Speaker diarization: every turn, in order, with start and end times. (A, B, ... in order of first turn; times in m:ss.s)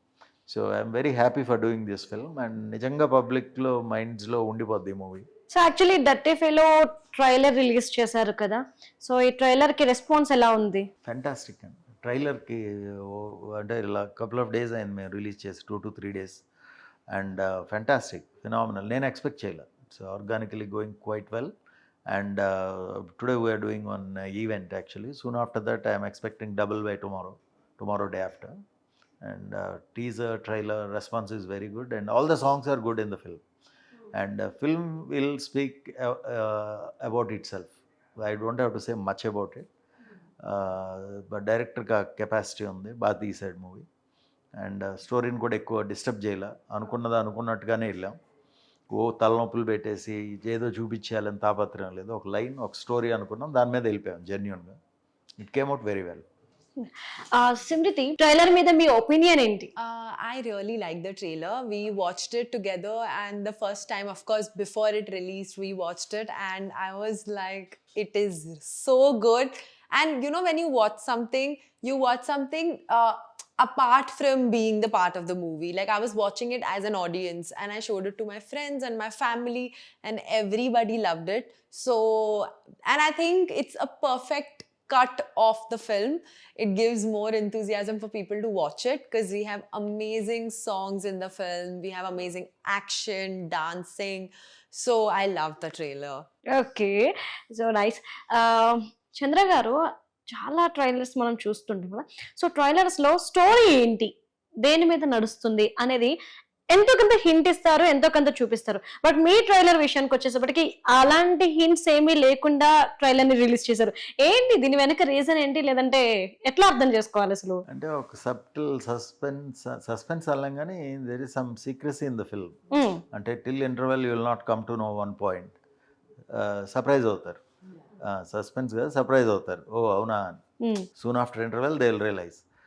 0:00.5-0:05.2 A
0:05.5-0:10.9 B
0:11.0-0:16.4 A
0:17.1-0:21.5 A
0:22.1-0:28.6 A
0:29.2-0:33.4 A
0:34.1-0:39.7 A
0:40.4-0:43.9 A
0:44.6-0:48.2 A
0:48.9-0:54.8 A
0:55.4-0:56.2 A
0:56.8-0:59.7 B
0:59.8-1:36.2 C
1:36.5-1:39.8 B
1:40.3-1:44.1 B
1:44.6-1:46.1 B
1:46.7-1:57.6 B
1:57.7-2:02.6 A
2:02.7-2:03.0 B
2:03.1-2:05.6 A
2:06.3-2:07.4 A
2:08.0-2:10.4 A
2:10.6-2:10.9 B
2:11.0-2:12.4 A